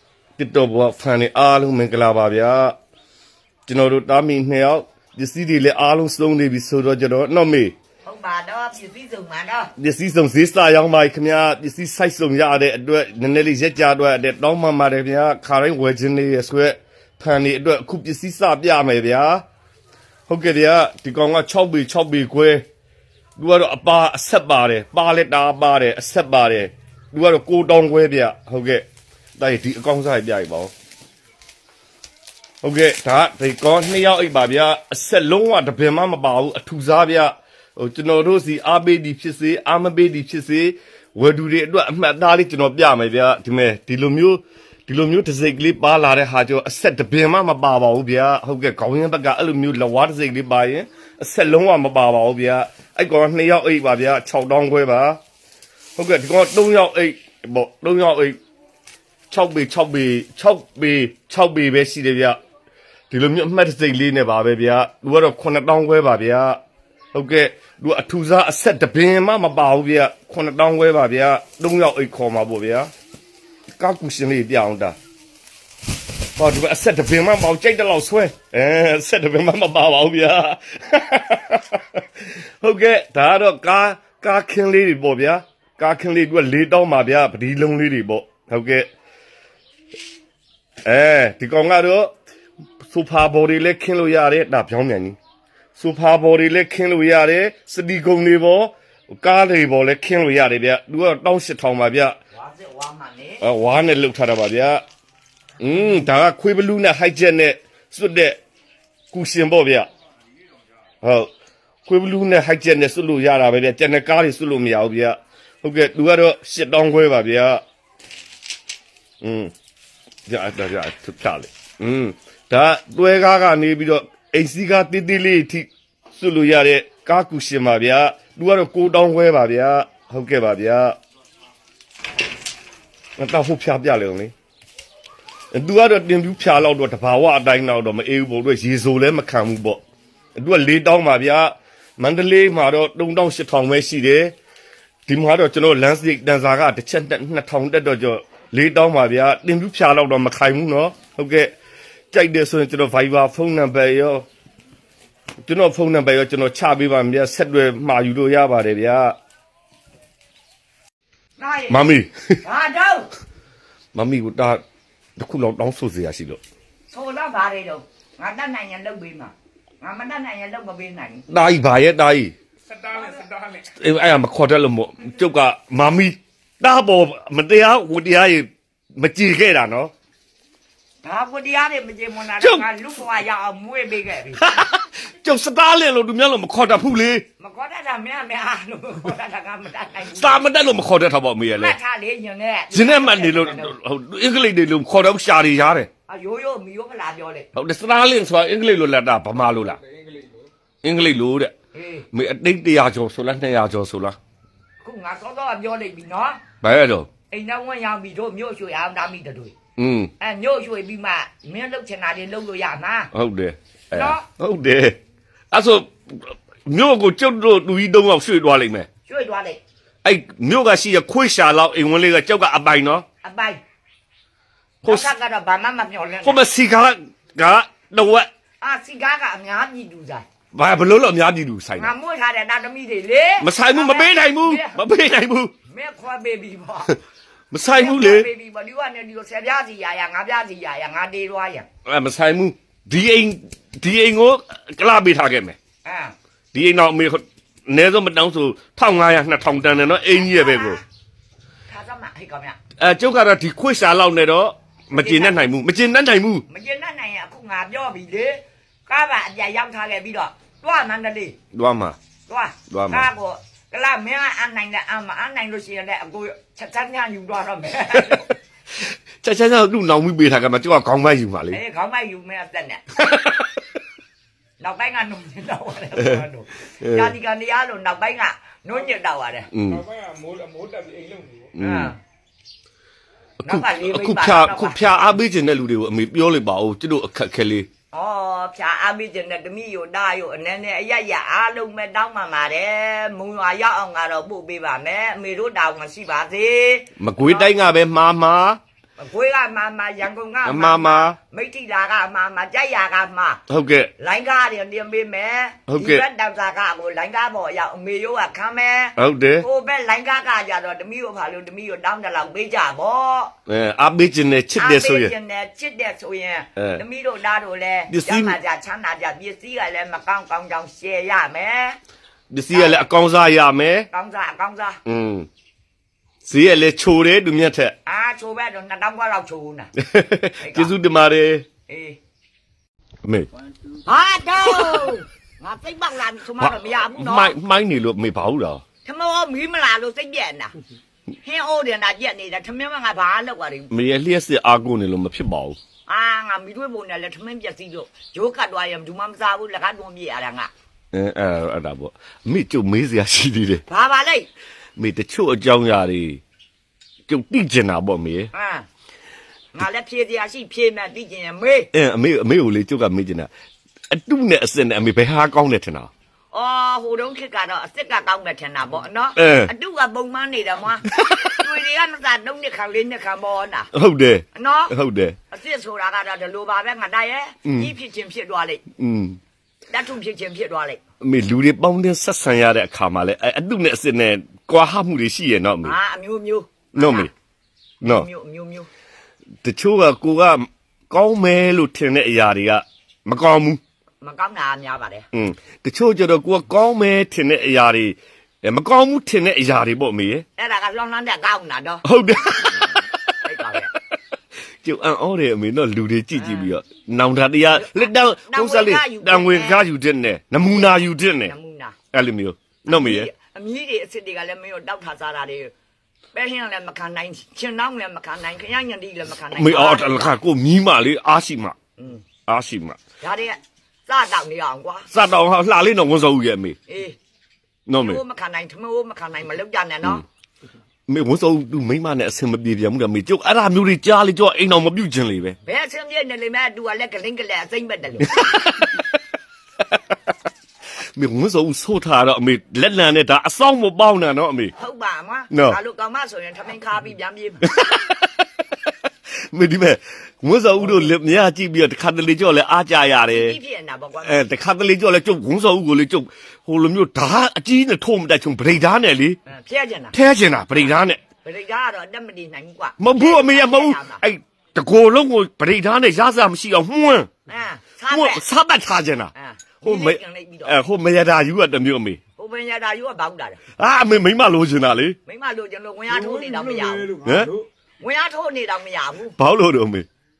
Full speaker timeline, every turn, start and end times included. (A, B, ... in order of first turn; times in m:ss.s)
0:00.4-0:02.7 A
0:03.7-0:07.7 A
0:08.0-0:09.7 B
0:09.8-0:19.4 A
0:20.3-0:22.6 A
0:23.4-0:28.8 A
0:29.4-0:30.7 A
0:32.6-0:55.2 A
0:56.0-0:58.4 A
0:59.3-1:02.4 A
1:03.1-1:06.6 A
1:07.1-1:12.9 A
1:13.8-1:15.0 A
1:16.4-1:28.9 A
1:30.8-1:32.1 A
1:32.8-1:35.2 A
1:35.8-1:42.2 A
1:42.3-1:43.4 B
1:43.4-1:44.8 A
1:45.6-1:48.4 A
1:49.1-1:49.9 A
1:51.0-1:51.3 A
1:51.8-1:57.6 A
1:59.2-1:59.5 A
2:00.3-2:10.9 A
2:13.2-2:14.3 A
2:15.5-2:19.8 A
2:20.4-2:24.3 A
2:25.1-2:31.5 A
2:32.1-2:34.2 A
2:35.4-2:39.1 A
2:41.4-2:41.9 B
2:41.7-2:42.4 A
2:42.4-2:43.1 B
2:43.9-2:44.6 A
2:45.2-2:46.4 A
2:46.9-2:51.2 B
2:51.3-2:52.3 A
2:52.9-2:53.2 B
2:53.1-2:53.3 C
2:53.6-2:59.9 A
3:01.0-3:04.4 B
3:02.4-3:02.6 A
3:04.4-3:07.2 A
3:07.4-3:10.4 B
3:10.1-3:11.7 A
3:11.6-3:13.7 B
3:12.7-3:15.9 A
3:16.1-3:17.5 B
3:17.5-3:19.8 A
3:20.8-3:21.5 A
3:21.7-3:22.1 B
3:22.1-3:24.2 A
3:24.8-3:26.4 B
3:26.6-3:27.1 A
3:27.3-3:29.5 B
3:29.8-3:30.1 A
3:30.2-3:33.1 B
3:33.1-3:35.0 A
3:33.9-3:34.2 B
3:35.5-3:38.9 A
3:39.1-3:39.6 B
3:40.0-3:43.0 A
3:43.2-3:43.6 B
3:44.8-3:46.4 B
3:44.8-3:45.1 A
3:46.2-3:48.3 A
3:48.6-3:50.2 B
3:50.5-3:51.9 A
3:51.8-3:54.8 B
3:53.4-3:55.5 A
3:55.7-3:56.9 B
3:57.5-3:58.3 A
3:57.7-4:01.7 B
4:01.8-4:05.6 A
4:05.8-4:06.1 B
4:06.5-4:10.8 A
4:10.1-4:10.8 B
4:11.7-4:12.6 B
4:12.8-4:16.4 A
4:15.0-4:15.4 B
4:16.5-4:21.4 B
4:21.5-4:22.0 A
4:22.3-4:28.3 B
4:22.7-4:23.1 A
4:28.8-4:31.6 A
4:31.5-4:32.9 B
4:33.1-4:33.5 A
4:34.6-4:39.5 B
4:36.0-4:36.2 A
4:36.8-4:37.1 A
4:39.5-4:39.9 A
4:39.9-4:41.5 C
4:41.5-4:41.9 A
4:41.6-4:42.0 B
4:43.4-4:47.7 A
4:43.4-4:44.9 B
4:47.9-4:57.5 B
4:57.0-4:58.6 A
4:59.0-5:03.4 B
5:00.4-5:01.2 A
5:03.5-5:03.9 A
5:04.0-5:13.3 B
5:05.7-5:06.0 A
5:09.0-5:09.4 A
5:13.5-5:15.1 A
5:14.5-5:21.8 B
5:16.6-5:16.8 A
5:17.9-5:18.4 A
5:22.3-5:23.9 A
5:22.5-5:22.9 B
5:23.9-5:24.8 B
5:24.8-5:25.3 A
5:26.2-5:27.7 A
5:27.8-5:29.7 B
5:29.8-5:31.4 A
5:30.4-5:30.7 B
5:31.7-5:32.0 B
5:33.0-5:33.3 A
5:33.8-5:37.3 B
5:36.4-5:38.6 A
5:38.8-5:40.6 B
5:41.2-5:43.7 B
5:43.7-5:45.6 A
5:45.9-5:50.5 B
5:50.9-5:53.6 A
5:53.7-5:54.3 B
5:54.8-5:56.2 A
5:57.1-5:58.3 A
5:58.3-5:58.6 B
5:59.5-6:01.7 B
6:01.7-6:03.3 A
6:03.9-6:05.9 A
6:06.3-6:13.7 B
6:09.2-6:09.5 A
6:11.0-6:11.3 A
6:13.7-6:15.2 A
6:14.3-6:14.7 B
6:15.3-6:18.6 B
6:17.4-6:17.7 A
6:18.8-6:19.2 A
6:19.7-6:20.8 B
6:21.0-6:25.8 A
6:25.6-6:27.1 B
6:26.8-6:27.1 A
6:27.8-6:28.7 B
6:29.4-6:33.6 A
6:34.0-6:35.1 B
6:35.1-6:40.2 A
6:40.4-6:41.8 B
6:41.8-6:43.2 A
6:43.2-6:43.7 B
6:44.6-6:51.3 A
6:46.2-6:46.5 B
6:47.5-6:49.7 B
6:50.5-6:51.8 B
6:51.9-6:53.1 A
6:52.6-6:55.5 B
6:56.1-7:00.2 B
6:59.3-7:01.6 A
7:01.8-7:02.0 B
7:02.3-7:02.8 A
7:03.0-7:04.9 B
7:04.9-7:06.6 A
7:06.7-7:07.0 B
7:07.7-7:08.0 A
7:07.8-7:10.0 B
7:10.9-7:15.4 A
7:15.4-7:18.3 B
7:18.0-7:18.8 A
7:20.9-7:24.5 A
7:24.6-7:27.4 B
7:25.3-7:25.6 A
7:27.4-7:28.1 A
7:29.3-7:33.4 A
7:33.0-7:34.2 B
7:34.0-7:39.2 A
7:39.2-7:40.0 B
7:39.9-7:41.0 A
7:40.5-7:44.0 B
7:42.8-7:47.1 A
7:47.3-7:48.2 B
7:47.9-7:49.1 A
7:49.1-7:50.6 B
7:49.6-7:52.0 A
7:52.2-7:53.4 B
7:53.6-7:55.0 A
7:55.1-7:57.0 B
7:57.0-7:57.4 A
7:57.8-7:59.2 B
7:59.2-7:59.8 A